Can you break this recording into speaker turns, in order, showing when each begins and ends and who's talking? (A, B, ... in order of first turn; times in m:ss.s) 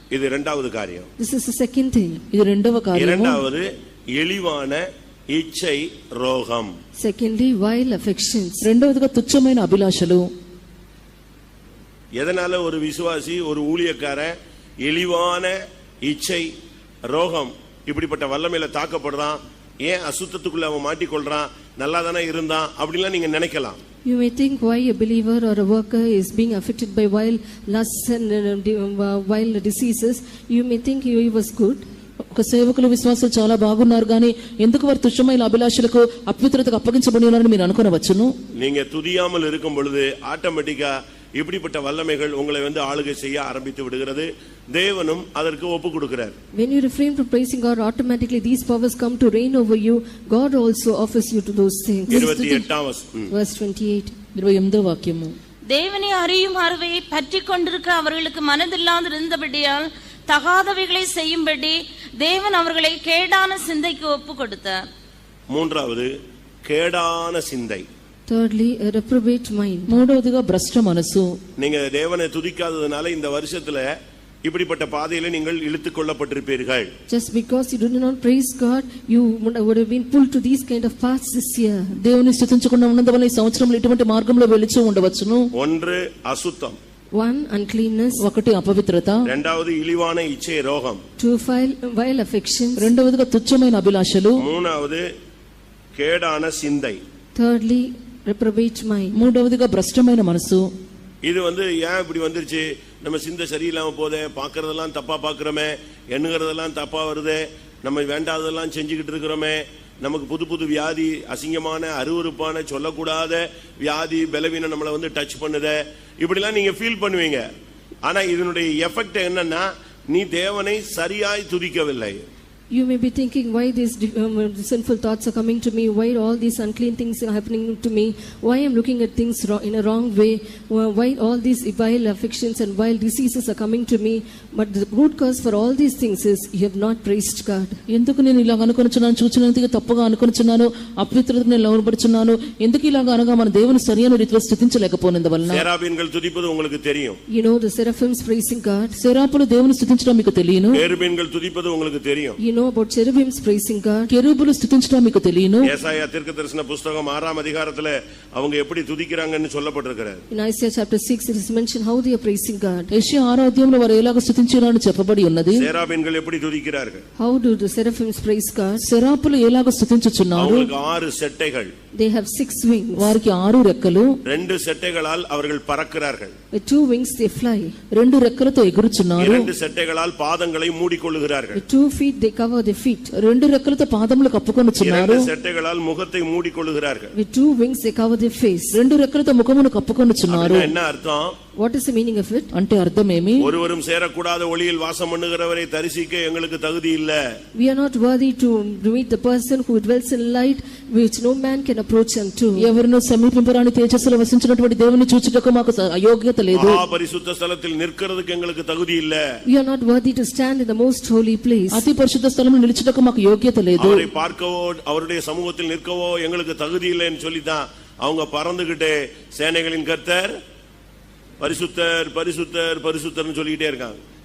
0:00.1-0:01.1 A
0:01.2-0:02.2 B
0:02.3-0:03.4 C
0:03.0-0:06.7 A
0:07.0-0:08.7 B
0:08.6-0:10.3 C
0:12.2-0:16.5 A
0:17.1-0:23.8 A
0:24.0-0:31.8 B
0:32.3-0:38.3 C
0:38.6-0:46.4 A
0:46.6-0:52.3 B
0:52.1-0:52.7 C
0:52.1-0:53.3 A
0:53.3-0:54.2 B
0:54.4-0:55.4 C
0:55.7-1:04.8 D
1:05.5-1:06.1 A
1:06.6-1:07.8 A
1:08.3-1:10.0 B
1:09.9-1:11.4 C
1:11.6-1:13.9 A
1:14.4-1:16.9 A
1:17.1-1:21.9 B
1:22.0-1:25.5 C
1:25.6-1:26.8 A
1:27.1-1:28.2 B
1:28.2-1:29.3 C
1:29.3-1:31.0 A
1:31.2-1:32.9 B
1:32.8-1:34.4 C
1:34.4-1:35.1 A
1:36.0-1:37.0 A
1:37.4-1:39.2 B
1:39.1-1:40.7 C
1:41.2-1:57.5 A
1:58.0-2:02.2 A
2:02.7-2:17.8 B
2:17.9-2:25.6 C
2:25.5-2:27.2 A
2:27.3-2:29.0 B
2:29.0-2:30.8 C
2:30.7-2:32.4 A
2:32.4-2:34.1 B
2:34.1-2:35.7 C
2:35.6-2:40.2 A
2:40.3-2:42.9 B
2:42.9-2:45.7 C
2:45.6-2:47.0 A
2:47.2-2:48.8 B
2:48.8-2:50.7 C
2:50.4-2:51.7 A
2:52.0-2:53.2 B
2:53.0-2:54.2 C
2:54.2-2:56.3 A
2:56.5-2:57.8 B
2:57.9-2:59.5 C
2:59.2-3:01.6 A
3:01.5-3:03.1 B
3:03.2-3:05.3 C
3:04.8-3:07.1 A
3:07.2-3:08.8 B
3:08.7-3:10.7 C
3:10.3-3:11.4 A
3:11.6-3:12.5 B
3:12.5-3:13.5 C
3:13.4-3:17.2 A
3:17.6-3:22.7 B
3:22.6-3:26.8 C
3:26.5-3:29.2 A
3:29.5-3:31.8 B
3:31.7-3:34.1 C
3:33.8-3:40.4 A
3:41.4-3:44.0 A